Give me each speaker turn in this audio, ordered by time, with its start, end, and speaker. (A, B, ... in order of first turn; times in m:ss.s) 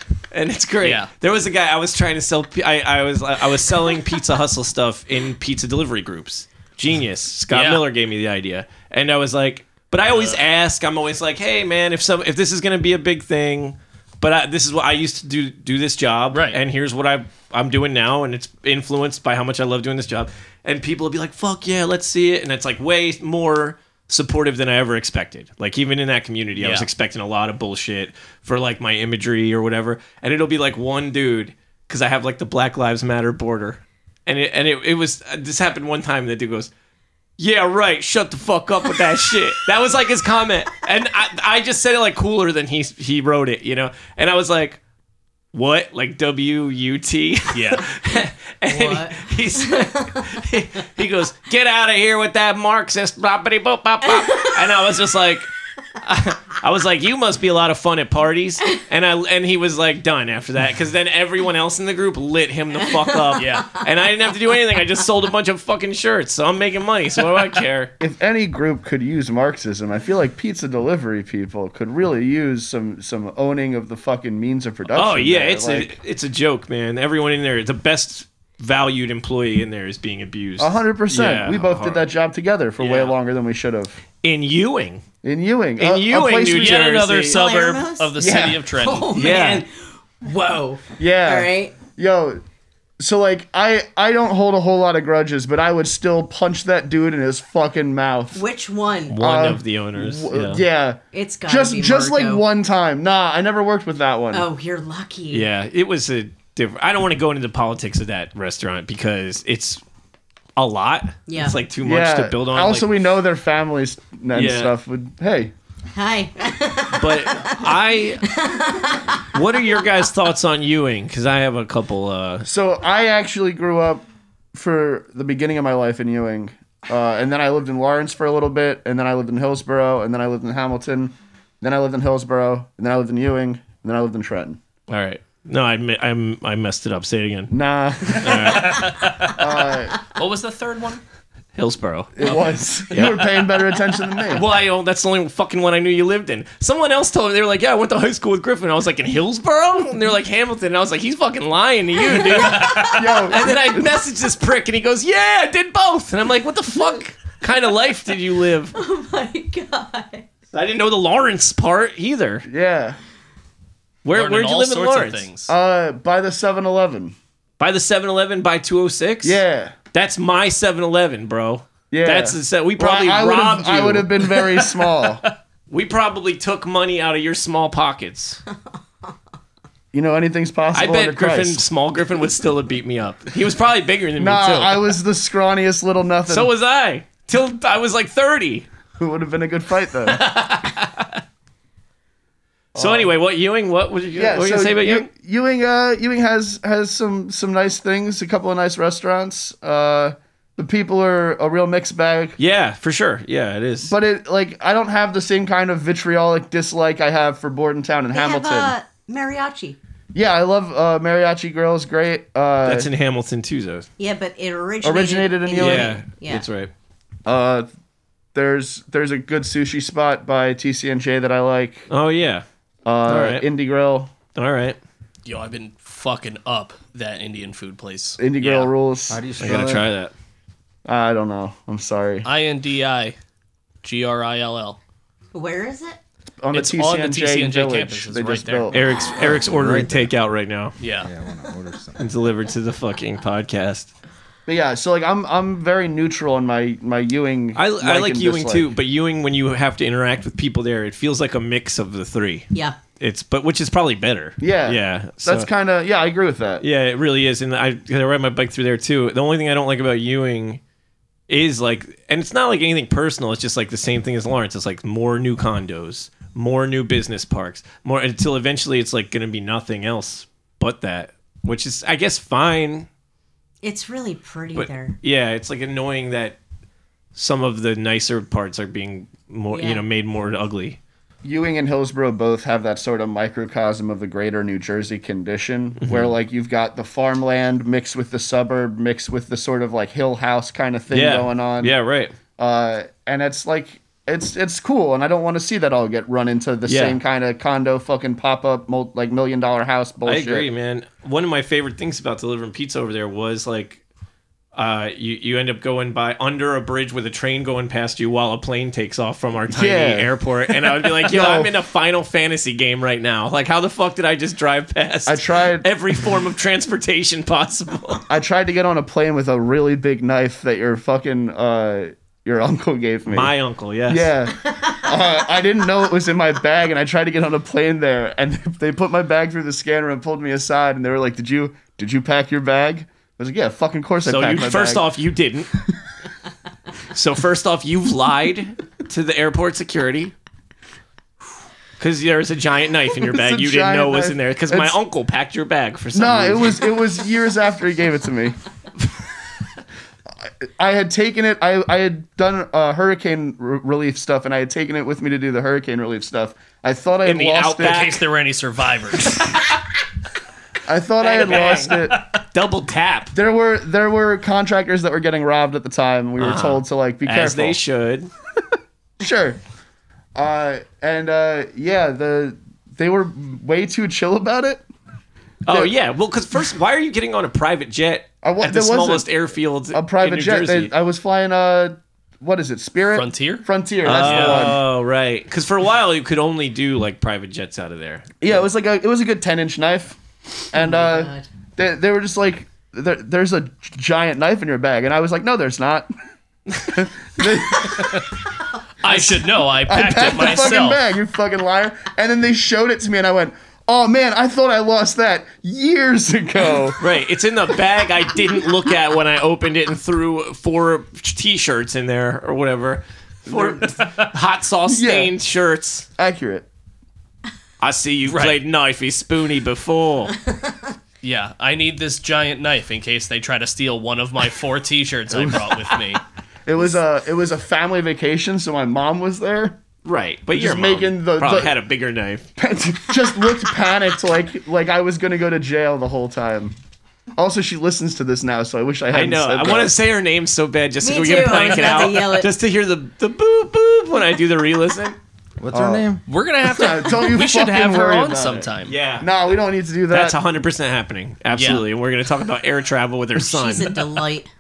0:00.3-0:36.7 A
0:00.8-0:01.1 B
0:07.5-0:07.8 B
0:10.1-0:10.4 B
0:16.3-0:16.6 B
0:26.6-0:26.9 B
0:37.4-0:44.8 A
0:45.5-0:55.5 A
0:47.5-0:47.8 B
0:48.7-0:50.3 C
0:56.0-1:07.9 A
1:03.4-1:03.8 B
1:08.0-1:15.9 D
1:14.9-1:22.1 A
1:20.6-1:24.0 D
1:22.8-1:23.2 A
1:24.2-1:25.0 A
1:25.2-1:27.0 D
1:25.8-1:27.4 A
1:26.5-1:29.2 B
1:27.3-1:28.1 C
1:28.2-1:28.7 D
1:28.8-1:31.8 C
1:29.1-1:29.6 A
1:31.0-1:32.4 D
1:33.0-1:38.4 D
1:38.3-1:39.2 C
1:39.1-1:40.6 A
1:39.2-1:44.5 D
1:41.1-1:42.4 C
1:44.3-1:45.5 C
1:45.3-1:49.8 A
1:50.6-1:52.9 A
1:51.3-1:51.6 C
1:51.8-1:55.5 D
1:54.3-1:54.7 A
1:55.9-1:57.7 C
1:56.9-1:58.3 A
1:58.2-1:59.4 C
1:59.3-2:02.5 A
2:02.4-2:04.0 D
2:04.5-2:14.6 D
2:14.9-2:17.5 A
2:17.5-2:20.0 D
2:18.1-2:19.1 A
2:18.4-2:21.0 B
2:21.6-2:23.6 A
2:22.2-2:24.5 D
2:24.3-2:38.8 A
2:32.4-2:33.0 C
2:32.4-2:33.9 D
2:38.8-2:40.3 C
2:40.5-2:42.4 A
2:42.5-2:43.0 D
2:44.0-2:45.3 A
2:44.1-2:45.5 B
2:45.5-2:47.2 D
2:47.6-2:49.4 A
2:49.2-2:49.7 D
2:49.9-2:54.1 A
2:51.9-2:55.2 D
2:55.7-2:58.4 A
2:59.9-3:01.6 D
3:00.7-3:05.0 A
3:04.2-3:06.5 D
3:06.3-3:08.7 A
3:09.0-3:10.3 D
3:10.0-3:11.2 A
3:12.7-3:13.1 D
3:12.8-3:15.1 A
3:14.2-3:22.4 D
3:22.4-3:23.9 A
3:23.8-3:28.7 D
3:28.1-3:29.8 C
3:30.1-3:32.9 D
3:32.6-3:33.9 A
3:34.0-3:36.4 C
3:34.8-3:36.0 D
3:35.6-3:36.7 A
3:37.3-3:37.7 D
3:38.3-3:41.9 D
3:41.9-3:42.4 A
3:42.8-3:44.1 D
3:43.1-3:43.4 A
3:44.4-3:44.8 A
3:45.3-3:48.7 B
3:48.2-3:49.7 D
3:49.1-3:49.9 E
3:49.4-3:50.1 A
3:50.9-3:52.3 D
3:52.2-3:53.2 B
3:53.8-3:54.8 B
3:55.3-3:56.0 C
3:56.4-3:58.8 D
3:56.5-3:58.8 B
3:58.7-4:00.8 A
3:59.0-3:59.4 C
3:59.1-4:00.1 E
4:00.8-4:01.1 B
4:01.0-4:02.1 E
4:02.0-4:03.9 A
4:04.5-4:08.7 D
4:07.6-4:15.5 A
4:14.4-4:16.6 D
4:16.6-4:20.6 A
4:21.3-4:32.9 A
4:33.6-4:35.0 C
4:34.6-4:36.4 A
4:37.2-4:40.8 A
4:39.5-4:39.8 C
4:41.2-4:51.7 D
4:45.8-4:46.1 A
4:50.9-4:52.1 A
4:52.4-5:00.5 D
4:56.6-4:57.0 A
5:00.1-5:03.8 A
5:04.6-5:18.0 A
5:09.5-5:10.1 D
5:10.6-5:11.5 D
5:15.1-5:15.7 D
5:18.1-5:23.3 D
5:23.1-5:24.1 A
5:23.9-5:34.8 D
5:24.4-5:25.0 C
5:34.0-5:35.5 A
5:36.9-5:40.1 A
5:41.8-5:46.7 A
5:43.0-5:44.8 D
5:46.0-5:48.4 D
5:50.4-5:57.9 D
5:57.0-5:58.0 A
5:57.6-5:59.3 B
6:00.7-6:02.0 D
6:01.0-6:01.8 A
6:01.3-6:02.2 B
6:02.3-6:03.1 A
6:03.1-6:07.6 D
6:06.2-6:08.1 A
6:09.0-6:09.4 D
6:10.2-6:14.6 D
6:15.4-6:20.7 A
6:18.2-6:19.1 D
6:19.7-6:24.6 D
6:22.9-6:24.5 B
6:23.8-6:28.3 A
6:28.2-6:30.0 D
6:30.5-6:35.9 D
6:30.6-6:31.3 C
6:36.6-6:38.1 D
6:38.8-6:40.8 B
6:38.8-6:46.8 D
6:46.8-6:55.9 A
6:53.3-6:53.6 D
6:53.8-6:54.1 B
6:54.7-6:55.1 D
6:56.0-6:56.5 D
6:57.6-7:00.2 A
6:58.1-6:58.4 B
7:00.3-7:00.6 C
7:01.0-7:06.0 B
7:05.1-7:05.4 D
7:06.5-7:09.6 D
7:09.8-7:12.2 A
7:10.3-7:11.6 D
7:12.4-7:16.6 D
7:17.2-7:19.7 D
7:18.9-7:25.0 A
7:20.8-7:22.3 C
7:25.4-7:26.0 E
7:25.5-7:25.9 D
7:26.1-7:28.8 B
7:26.5-7:30.2 D
7:28.7-7:29.1 A
7:29.9-7:33.9 A
7:31.3-7:31.7 B
7:33.2-7:34.3 C